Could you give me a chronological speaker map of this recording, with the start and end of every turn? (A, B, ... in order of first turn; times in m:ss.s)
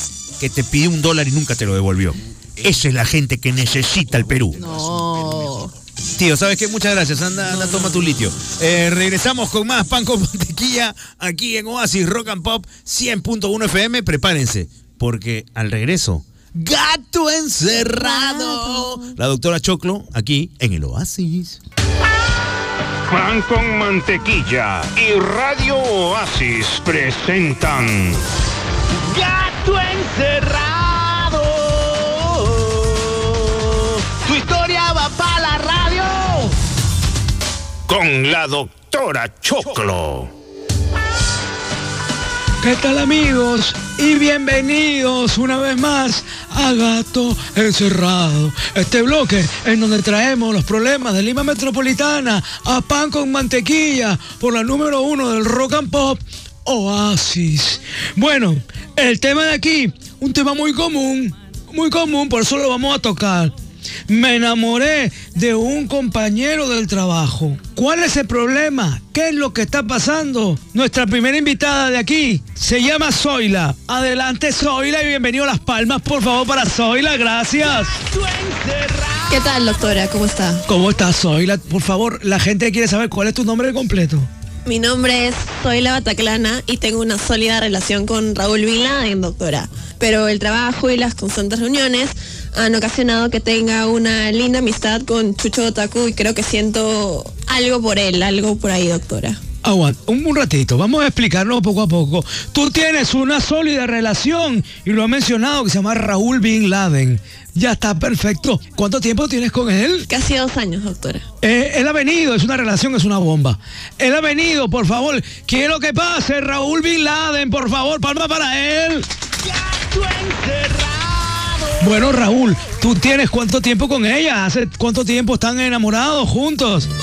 0:00.4-0:04.6 A
0:04.5-0:05.7 B
0:06.2-0:21.6 A
0:07.5-0:08.0 B
0:18.0-0:19.0 B
0:23.1-0:28.2 C
0:29.1-0:33.1 D
0:34.1-0:36.5 D
0:37.9-0:40.3 C
0:42.6-1:03.5 E
1:04.1-1:17.9 E
1:19.3-1:20.6 F
1:20.7-1:24.3 E
1:24.6-1:39.4 F
1:39.6-1:50.0 E
1:50.1-1:51.2 F
1:51.4-1:59.0 E
1:59.7-2:01.7 D
2:01.8-2:06.9 E